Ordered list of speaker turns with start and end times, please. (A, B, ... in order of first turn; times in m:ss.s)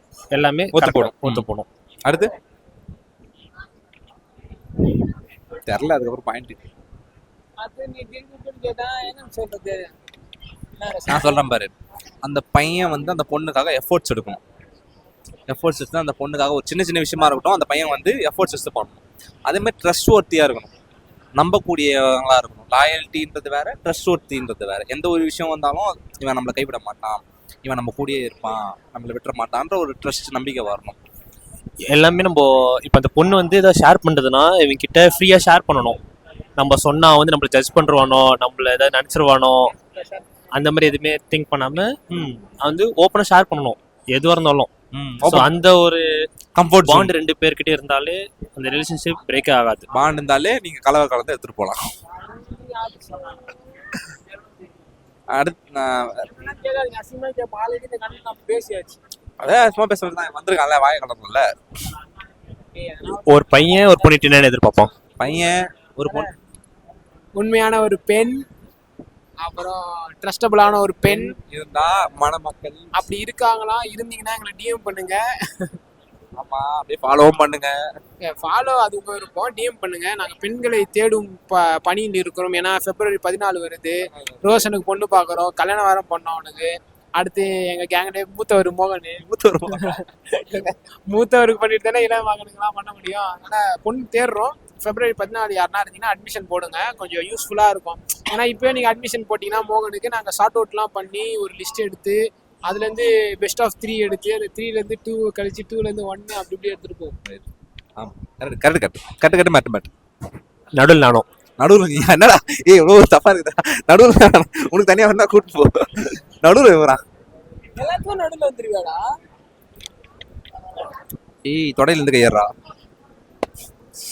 0:00.3-0:01.7 A
0:00.7-0:01.5 B
0:02.0-0:02.3 B
0:05.7-0:06.6 B
0:07.6-0:09.9 C
0:10.8-0:11.4 C
0:11.1-0:14.4 B
0:15.5-0:20.7 B
0:21.4-0:31.0 B
0:31.9-0:36.0 A
0:36.6-0:39.7 A
0:40.0-0:40.2 C
0:40.5-0:44.7 A
0:44.9-0:45.5 B
0:45.2-0:46.1 A
0:46.6-0:47.1 B
0:46.8-0:49.9 A
0:49.9-0:51.8 B
0:52.2-0:54.0 C
0:55.3-0:56.3 B
0:56.2-0:59.0 C
0:59.4-1:01.5 B
1:02.7-1:04.3 C
1:03.2-1:04.9 A
1:05.2-1:06.3 B
1:06.1-1:06.3 C
1:07.4-1:08.4 C
1:09.4-1:11.4 C
1:11.1-1:13.0 B
1:12.9-1:15.7 C
1:16.4-1:17.8 B
1:18.3-1:47.2 C
1:24.1-1:24.6 B
1:29.2-1:30.0 B
1:48.0-1:49.9 B
1:50.8-1:51.2 A
1:51.6-1:57.0 B
1:57.8-1:59.0 C
2:01.4-2:02.5 B